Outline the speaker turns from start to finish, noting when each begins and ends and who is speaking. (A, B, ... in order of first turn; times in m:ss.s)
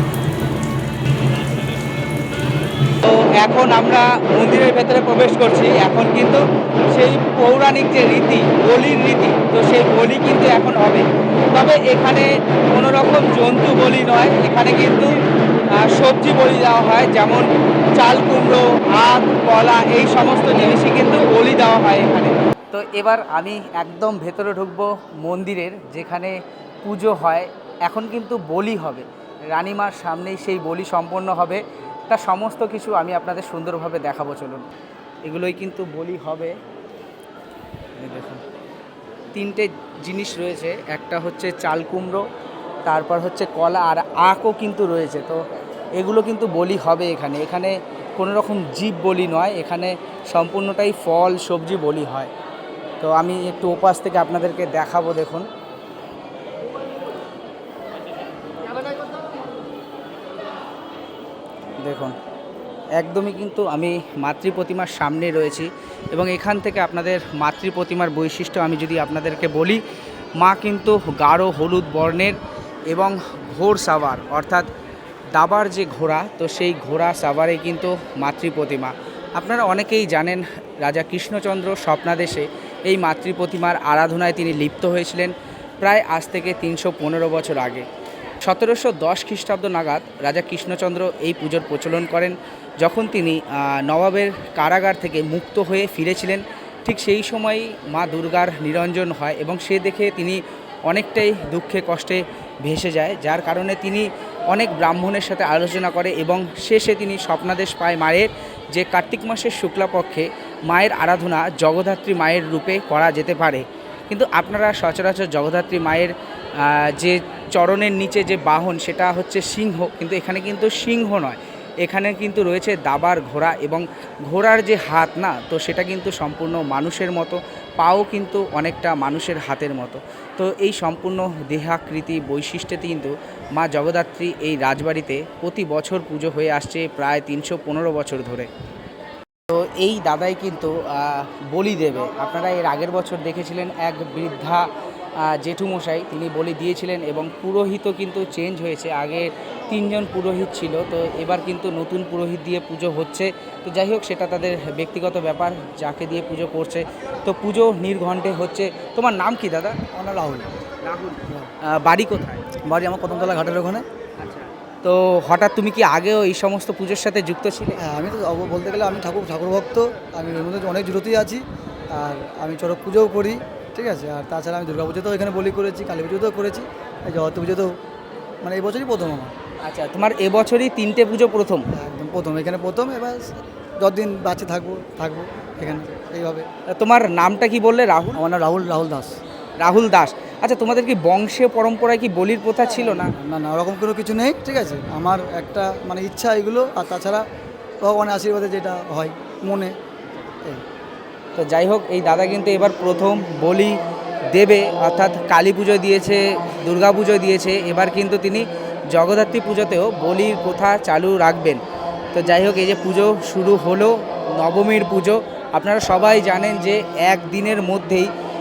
0:03.0-0:34.7 A
0:35.3-0:36.5 A
0:38.0-0:38.4 A
0:39.3-0:42.2 A
0:42.9-0:45.4 A
0:46.0-0:52.3 A
0:53.0-0:55.5 A
1:01.8-1:02.2 A
1:03.0-1:09.8 A
1:10.4-1:12.4 A
1:12.9-1:14.7 A
1:15.4-1:27.8 A
1:28.4-2:18.5 A
2:19.5-2:24.7 A
2:25.2-2:39.8 A
2:39.9-2:40.6 B
2:40.8-2:42.4 A
2:42.6-2:43.8 B
2:44.2-2:47.8 A
2:47.8-2:57.7 B
2:58.4-2:59.4 B
2:59.6-3:01.6 A
3:01.7-3:06.5 B
3:06.7-3:08.2 A
3:08.2-3:09.2 B
3:09.6-3:13.1 A
3:13.2-3:17.2 B
3:17.8-3:19.8 B
3:21.3-3:23.8 A
3:24.3-3:31.6 A
3:32.1-3:38.1 A